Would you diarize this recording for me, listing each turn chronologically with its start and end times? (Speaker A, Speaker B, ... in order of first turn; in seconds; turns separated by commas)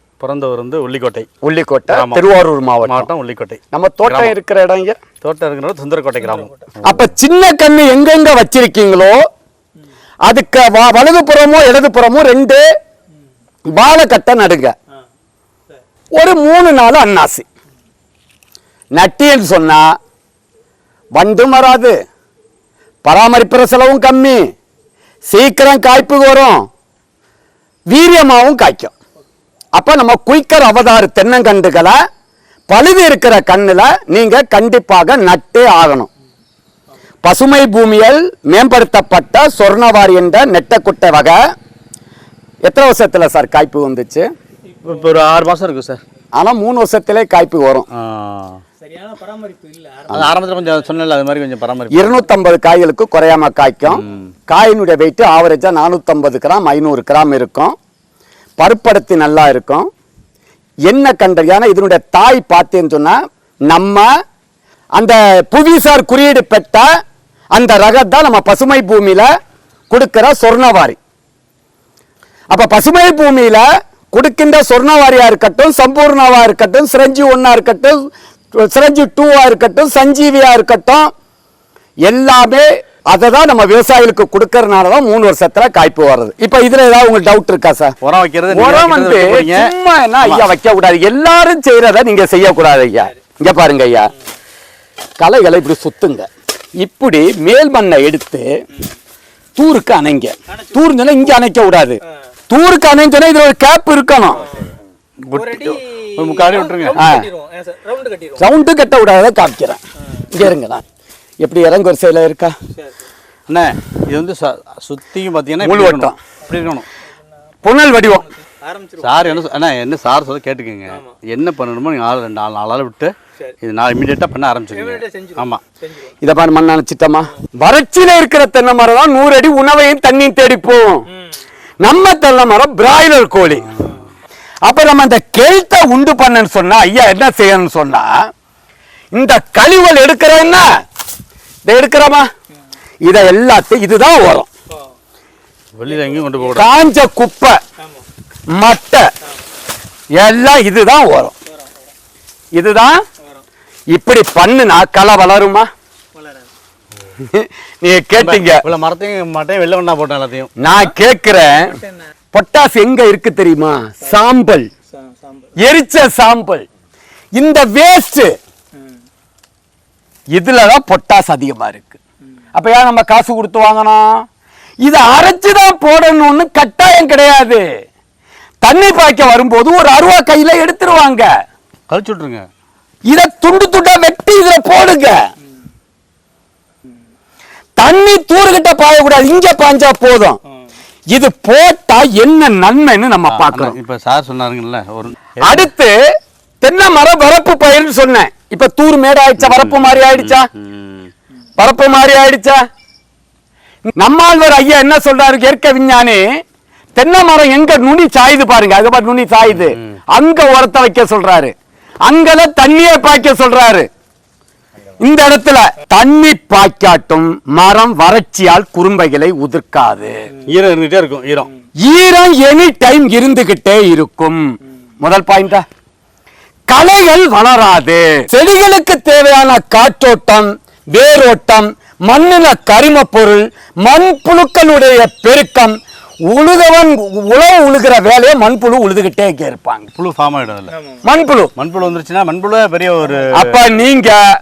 Speaker A: 0.2-1.3, Speaker B: 1.4-3.1, Speaker A: 1.9-2.2, Speaker A: 2.9-4.3, Speaker B: 3.7-5.0, Speaker A: 5.2-7.1, Speaker B: 6.8-9.2, Speaker B: 10.3-12.6, Speaker B: 13.7-14.8, Speaker B: 16.1-17.4, Speaker B: 18.9-19.9, Speaker B: 21.1-22.0, Speaker B: 23.0-24.4, Speaker B: 25.3-26.7, Speaker B: 27.9-28.9, Speaker B: 29.8-32.0, Speaker B: 32.7-36.1, Speaker B: 37.2-41.4, Speaker B: 42.6-44.3, Speaker A: 44.8-46.0, Speaker B: 46.4-47.9, Speaker A: 48.0-48.6, Speaker C: 48.9-50.1, Speaker A: 50.1-52.2, Speaker B: 51.9-57.8, Speaker A: 53.9-54.3, Speaker B: 58.6-59.9, Speaker B: 60.9-63.2, Speaker B: 63.7-64.1, Speaker B: 65.0-66.9, Speaker B: 67.5-69.3, Speaker B: 69.9-71.0, Speaker B: 72.5-78.0, Speaker B: 78.5-81.1, Speaker B: 82.0-88.0, Speaker A: 88.0-89.7, Speaker B: 88.5-94.1, Speaker A: 90.2-90.5, Speaker B: 95.2-96.3, Speaker B: 96.8-98.5, Speaker B: 99.6-102.0, Speaker B: 102.5-104.4, Speaker A: 105.2-107.1, Speaker C: 105.4-105.7, Speaker C: 106.3-108.4, Speaker B: 107.0-107.3, Speaker B: 108.4-110.8, Speaker B: 111.4-112.5, Speaker A: 113.5-116.9, Speaker B: 115.6-116.2, Speaker B: 117.6-118.3, Speaker C: 118.5-119.1, Speaker A: 119.0-125.6, Speaker C: 125.0-126.1, Speaker B: 126.2-131.0, Speaker B: 131.8-133.7, Speaker B: 134.6-138.1, Speaker B: 139.1-140.7, Speaker B: 141.7-142.3, Speaker B: 143.0-144.5, Speaker A: 145.8-146.7, Speaker B: 146.5-147.6, Speaker B: 148.5-149.1, Speaker B: 150.2-151.3, Speaker B: 152.5-153.0, Speaker B: 153.9-155.7, Speaker B: 157.2-158.6, Speaker A: 158.2-160.5, Speaker B: 160.6-161.7, Speaker B: 162.3-164.7, Speaker C: 165.1-165.5, Speaker B: 165.6-166.7, Speaker B: 167.4-168.4, Speaker B: 170.3-172.0, Speaker B: 172.6-174.2, Speaker B: 174.8-177.7, Speaker B: 178.6-181.3, Speaker A: 181.9-182.4, Speaker B: 183.1-185.2, Speaker B: 187.8-190.4, Speaker B: 191.1-193.8, Speaker A: 193.3-195.7, Speaker B: 195.4-195.9, Speaker B: 196.6-200.5, Speaker A: 199.4-201.1, Speaker B: 201.6-202.6, Speaker B: 203.9-206.2, Speaker B: 207.0-213.9, Speaker A: 209.5-209.8, Speaker B: 215.0-220.2, Speaker A: 220.5-221.5, Speaker B: 221.8-225.7, Speaker B: 226.7-235.8, Speaker B: 236.3-239.9, Speaker A: 240.0-240.8, Speaker B: 241.0-241.5, Speaker A: 241.6-243.5, Speaker B: 243.3-244.2